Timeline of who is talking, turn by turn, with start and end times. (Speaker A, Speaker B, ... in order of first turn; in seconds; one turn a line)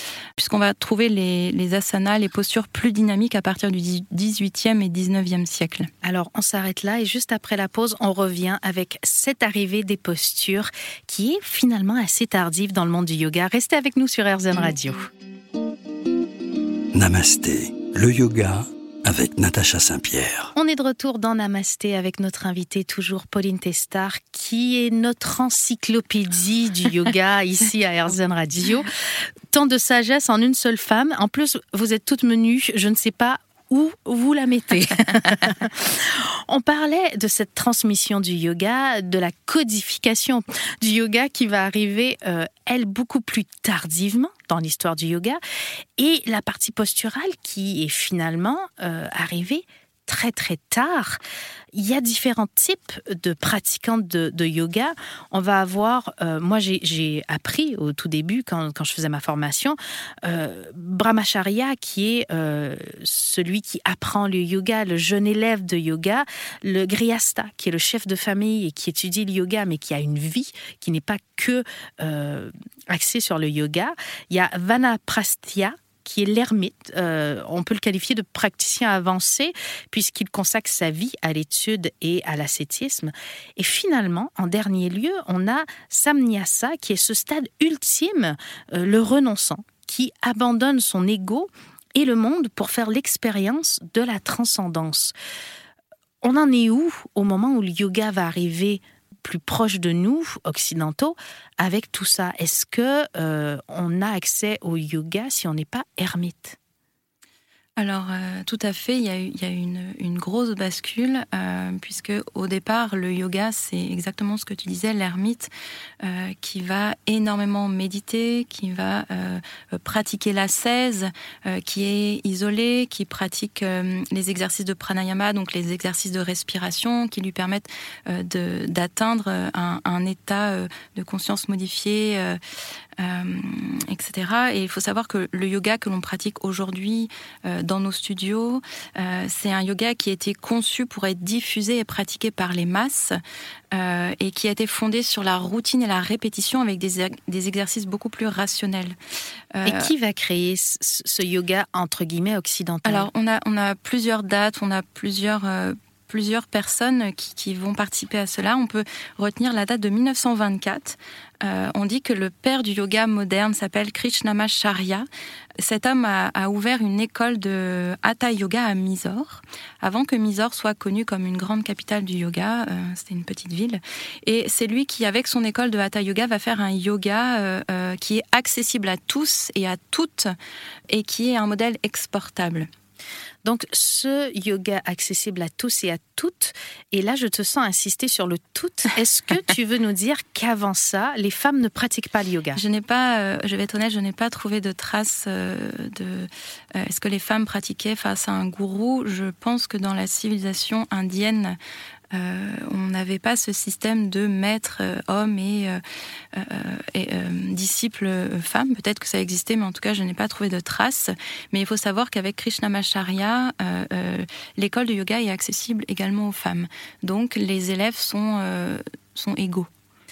Speaker A: 0.4-5.9
Speaker B: 6.0-15.1
Speaker C: 16.9-20.5
Speaker B: 20.6-28.9
Speaker B: 29.5-45.4
Speaker B: 46.0-51.2
Speaker B: 51.7-95.1
Speaker B: 96.2-106.6
Speaker A: 107.8-115.5
Speaker A: 116.0-132.4
Speaker A: 133.0-143.2
Speaker A: 143.7-149.0
Speaker A: 149.5-149.9
Speaker B: 149.7-153.1
Speaker A: 152.8-165.1
Speaker A: 165.6-180.3
Speaker A: 180.9-182.7
Speaker B: 183.4-192.6
Speaker A: 192.5-201.6
Speaker A: 202.1-205.8
Speaker A: 206.3-219.7